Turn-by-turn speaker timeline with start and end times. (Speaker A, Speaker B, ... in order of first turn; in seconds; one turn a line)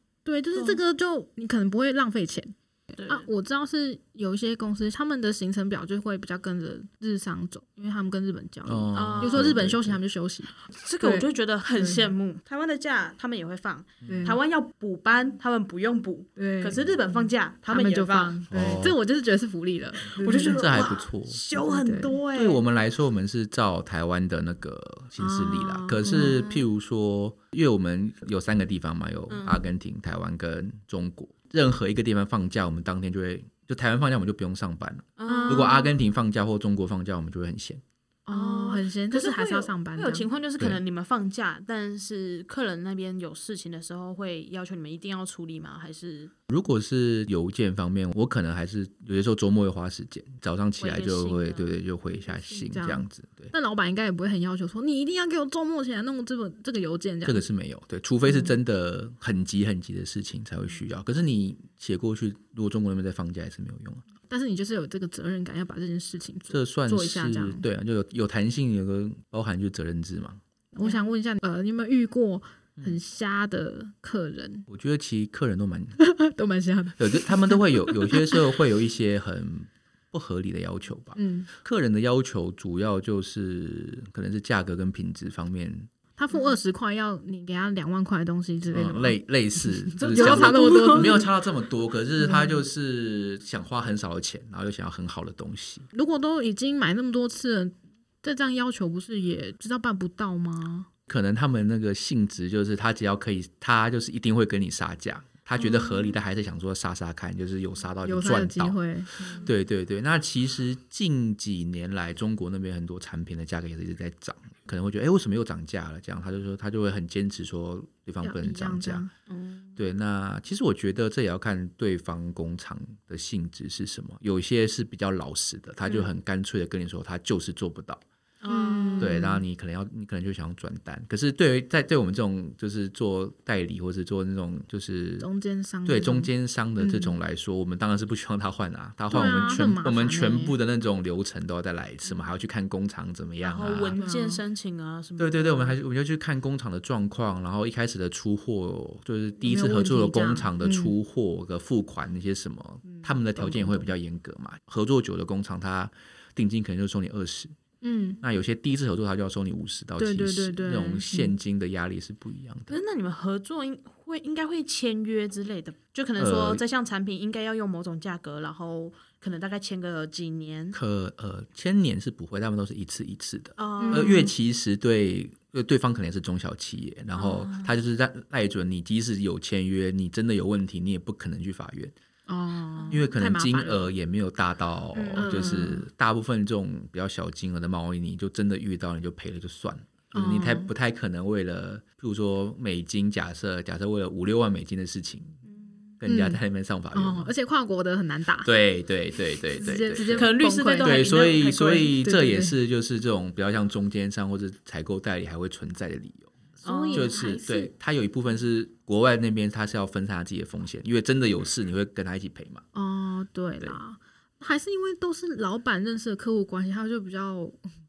Speaker A: 0.2-12.1
Speaker B: 0.6-0.8
Speaker B: 3.0-3.3
Speaker C: 8.7-10.0
Speaker B: 8.9-9.6
Speaker B: 10.7-18.4
Speaker C: 14.0-14.4
Speaker A: 14.1-14.4
Speaker A: 16.4-17.2
Speaker A: 17.7-20.7
Speaker C: 18.5-19.0
Speaker B: 20.1-22.6
Speaker C: 20.5-21.4
Speaker A: 21.6-22.2
Speaker C: 22.3-37.8
Speaker A: 25.2-26.6
Speaker B: 29.3-29.6
Speaker B: 35.2-35.8
Speaker A: 35.3-35.9
Speaker A: 38.3-40.3
Speaker B: 38.3-46.3
Speaker C: 46.5-53.5
Speaker B: 50.8-51.7
Speaker A: 52.3-57.4
Speaker C: 57.2-64.0
Speaker A: 64.3-67.7
Speaker C: 66.5-70.4
Speaker A: 70.7-74.7
Speaker C: 74.7-76.0
Speaker A: 76.0-78.4
Speaker C: 77.0-85.9
Speaker A: 81.2-81.5
Speaker A: 86.2-91.3
Speaker C: 88.7-95.9
Speaker B: 90.0-91.2
Speaker A: 92.2-92.6
Speaker A: 95.9-100.9
Speaker C: 101.1-108.8
Speaker A: 105.6-106.2
Speaker A: 108.0-109.5
Speaker B: 109.2-109.5
Speaker C: 109.4-119.1
Speaker A: 118.2-119.1
Speaker B: 119.3-119.8
Speaker C: 119.8-128.0
Speaker B: 128.4-129.2
Speaker A: 128.5-129.4
Speaker C: 129.0-135.3
Speaker A: 135.2-137.2
Speaker C: 135.8-144.0
Speaker A: 139.1-140.6
Speaker B: 139.2-139.5
Speaker B: 143.4-145.8
Speaker A: 144.0-144.4
Speaker C: 145.2-157.5
Speaker A: 149.4-150.9
Speaker A: 152.8-153.9
Speaker A: 157.8-158.2
Speaker C: 158.2-162.8
Speaker A: 160.0-161.3
Speaker B: 162.7-170.8
Speaker C: 166.2-166.6
Speaker C: 170.7-181.9
Speaker B: 173.6-174.3
Speaker A: 173.8-174.3
Speaker B: 177.1-177.7
Speaker A: 182.3-183.9
Speaker B: 182.8-183.0
Speaker C: 182.9-195.4
Speaker B: 184.9-185.7
Speaker A: 185.2-185.8
Speaker A: 190.1-190.7
Speaker B: 195.4-195.9
Speaker C: 196.0-197.3
Speaker A: 196.1-196.4
Speaker A: 196.9-198.5
Speaker C: 198.4-212.6
Speaker A: 199.5-201.1
Speaker B: 200.1-202.0
Speaker A: 201.9-202.6
Speaker A: 206.6-207.7
Speaker B: 206.6-207.3
Speaker A: 212.7-217.7